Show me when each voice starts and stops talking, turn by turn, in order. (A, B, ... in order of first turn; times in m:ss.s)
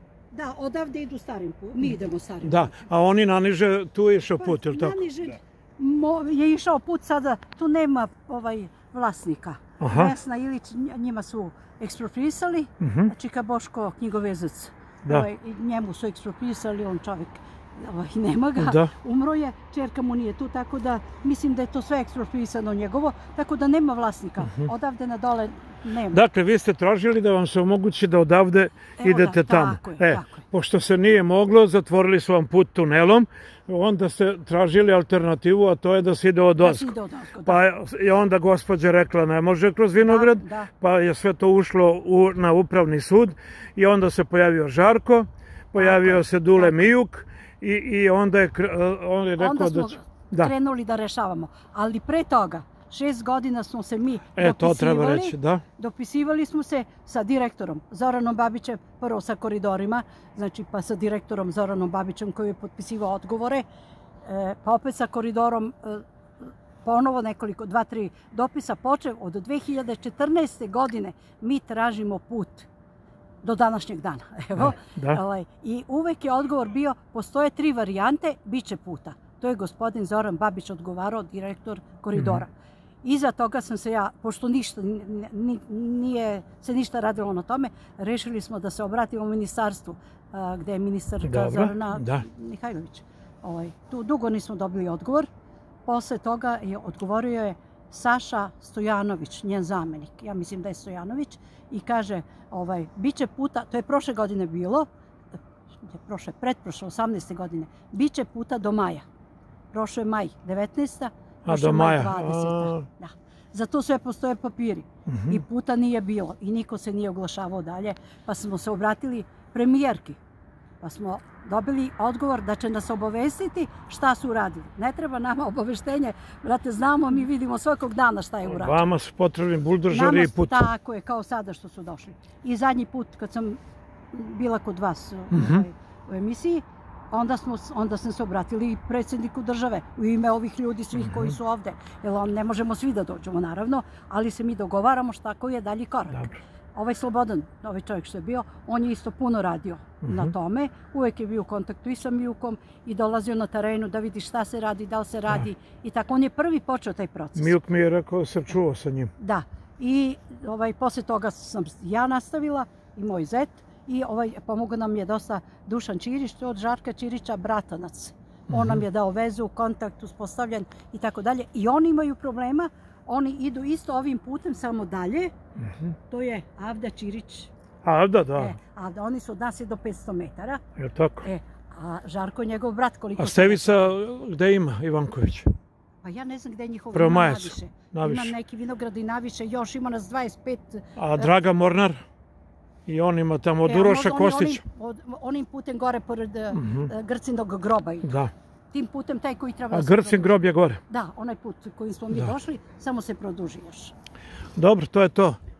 0:00.3-0:02.8 A
0:02.4-0:05.0 B
0:04.3-0:26.2 A
0:09.8-0:10.1 B
0:12.8-0:13.1 B
0:18.6-0:18.9 B
0:26.1-0:36.9 B
0:29.0-0:30.4 A
0:36.6-0:37.6 A
0:37.4-0:50.5 B
0:40.0-0:40.7 A
0:45.8-0:46.9 A
0:49.4-1:03.7 A
0:54.4-0:55.6 B
1:04.2-1:12.7 A
1:13.4-1:22.5 A
1:14.6-1:15.2 B
1:22.1-1:22.4 B
1:23.0-1:35.3 A
1:31.2-1:32.2 B
1:35.9-1:44.9 A
1:45.8-1:49.0 A
1:49.7-2:00.2 A
1:51.4-1:52.8 B
1:55.1-1:55.4 B
2:00.8-2:08.8 A
2:08.4-2:10.6 B
2:09.9-2:13.6 A
2:14.1-2:37.6 A
2:15.3-2:15.6 B
2:21.0-2:21.4 B
2:30.0-2:30.3 B
2:37.4-2:39.1 B
2:39.2-2:55.3 A
2:48.5-2:48.8 B
2:55.7-2:55.9 B
2:56.1-2:57.5 A
2:57.8-2:58.6 B
2:58.4-3:00.6 A
3:00.8-3:01.3 B
3:01.2-3:03.9 A
3:03.2-3:05.5 B
3:06.0-3:11.3 A
3:06.9-3:08.3 B
3:11.0-3:12.0 B
3:12.9-3:14.6 B
3:13.6-3:18.1 A
3:16.5-3:16.9 B
3:18.0-3:18.3 B
3:18.7-3:23.9 A
3:19.7-3:20.8 B
3:24.6-3:25.4 B